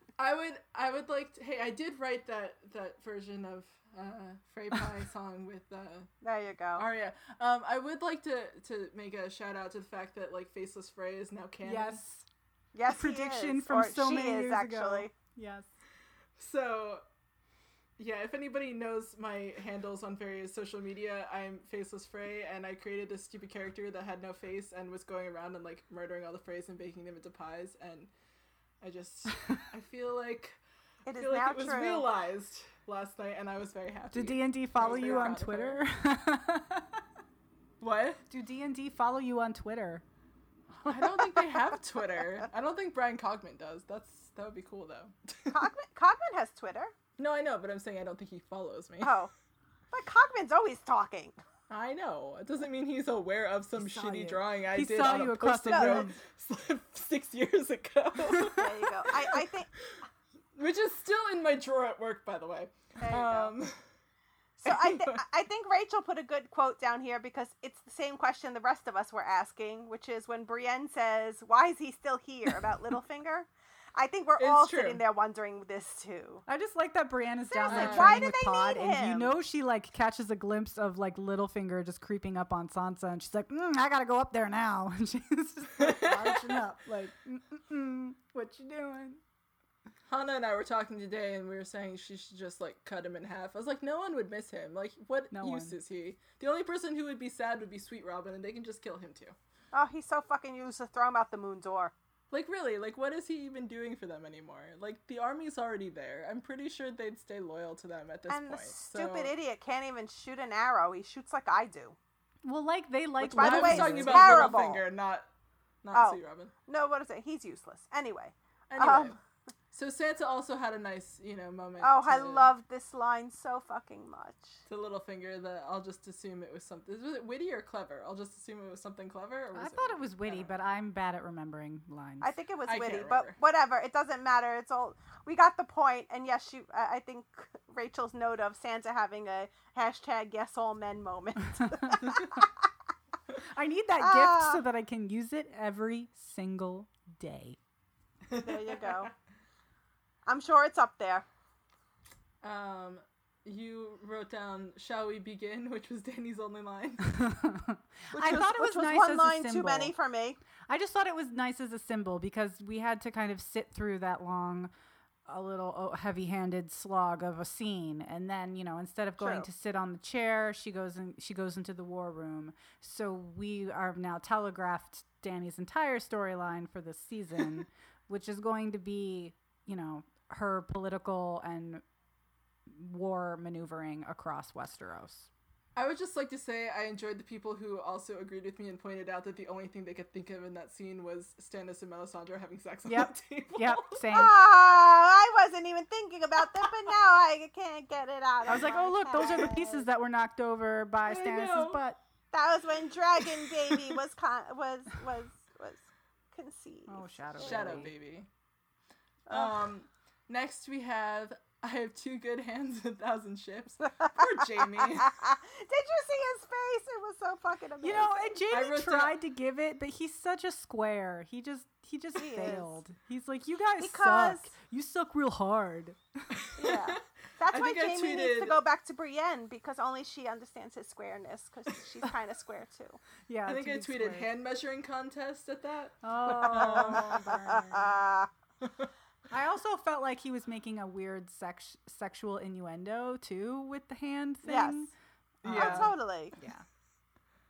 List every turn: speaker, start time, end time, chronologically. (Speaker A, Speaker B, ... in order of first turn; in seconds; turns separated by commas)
Speaker A: 0.2-6.1, Speaker B: 6.2-6.8, Speaker A: 6.8-12.0, Speaker C: 11.6-12.3, Speaker B: 12.7-15.1, Speaker C: 12.9-15.7, Speaker A: 16.4-17.0, Speaker A: 18.0-28.1, Speaker A: 28.8-30.6, Speaker B: 31.1-32.1, Speaker A: 31.1-35.8, Speaker C: 34.1-37.0, Speaker B: 34.8-35.4, Speaker A: 37.8-38.2, Speaker C: 38.3-40.0, Speaker C: 40.8-41.4, Speaker A: 40.9-45.6, Speaker B: 45.5-46.9, Speaker A: 47.2-49.3, Speaker B: 49.0-49.3, Speaker B: 49.9-51.4, Speaker A: 51.7-60.0, Speaker C: 53.8-56.1, Speaker B: 55.1-56.1, Speaker C: 58.3-58.6, Speaker B: 58.5-59.7, Speaker A: 60.6-63.8, Speaker B: 63.0-63.5, Speaker B: 64.6-76.4, Speaker A: 64.7-65.2, Speaker A: 74.4-75.0, Speaker C: 76.5-89.2, Speaker B: 77.5-79.3, Speaker A: 77.7-78.3, Speaker A: 85.8-86.6, Speaker A: 90.1-99.4, Speaker C: 95.3-95.8, Speaker B: 99.7-101.9, Speaker A: 102.3-109.3, Speaker B: 108.3-112.0, Speaker C: 112.5-114.6, Speaker B: 113.2-114.8, Speaker A: 113.2-115.3, Speaker A: 115.8-116.5, Speaker B: 115.9-119.2, Speaker A: 118.7-119.2, Speaker A: 119.7-122.5, Speaker B: 121.8-124.6, Speaker A: 124.7-130.5, Speaker C: 129.6-132.3, Speaker B: 132.2-142.7, Speaker A: 132.7-133.4, Speaker C: 141.6-142.1, Speaker C: 143.5-147.6, Speaker B: 144.0-144.6, Speaker A: 148.3-149.1, Speaker B: 148.3-149.1, Speaker B: 150.3-151.3, Speaker A: 152.4-157.2, Speaker C: 157.0-159.9, Speaker B: 158.1-160.4, Speaker C: 160.7-164.7, Speaker C: 165.3-181.8, Speaker B: 169.2-169.5, Speaker C: 182.7-185.3, Speaker A: 185.8-194.2, Speaker C: 192.8-194.3, Speaker B: 194.1-199.8, Speaker C: 198.5-202.0, Speaker A: 199.1-199.6, Speaker A: 201.1-201.8, Speaker B: 202.3-207.9, Speaker A: 203.5-203.8, Speaker C: 206.9-207.9, Speaker A: 207.4-208.3, Speaker B: 209.3-209.7, Speaker A: 209.3-215.2, Speaker B: 214.0-218.4, Speaker C: 217.8-226.4, Speaker A: 218.5-219.2, Speaker B: 222.2-222.7, Speaker B: 223.8-224.5, Speaker A: 226.4-228.6, Speaker B: 226.6-233.0, Speaker C: 233.3-234.3, Speaker A: 233.5-237.3, Speaker C: 236.0-237.9, Speaker B: 236.4-238.3, Speaker A: 238.6-238.9, Speaker C: 239.3-244.9, Speaker B: 244.4-244.9, Speaker A: 245.4-245.9, Speaker C: 245.4-246.7, Speaker B: 245.5-246.3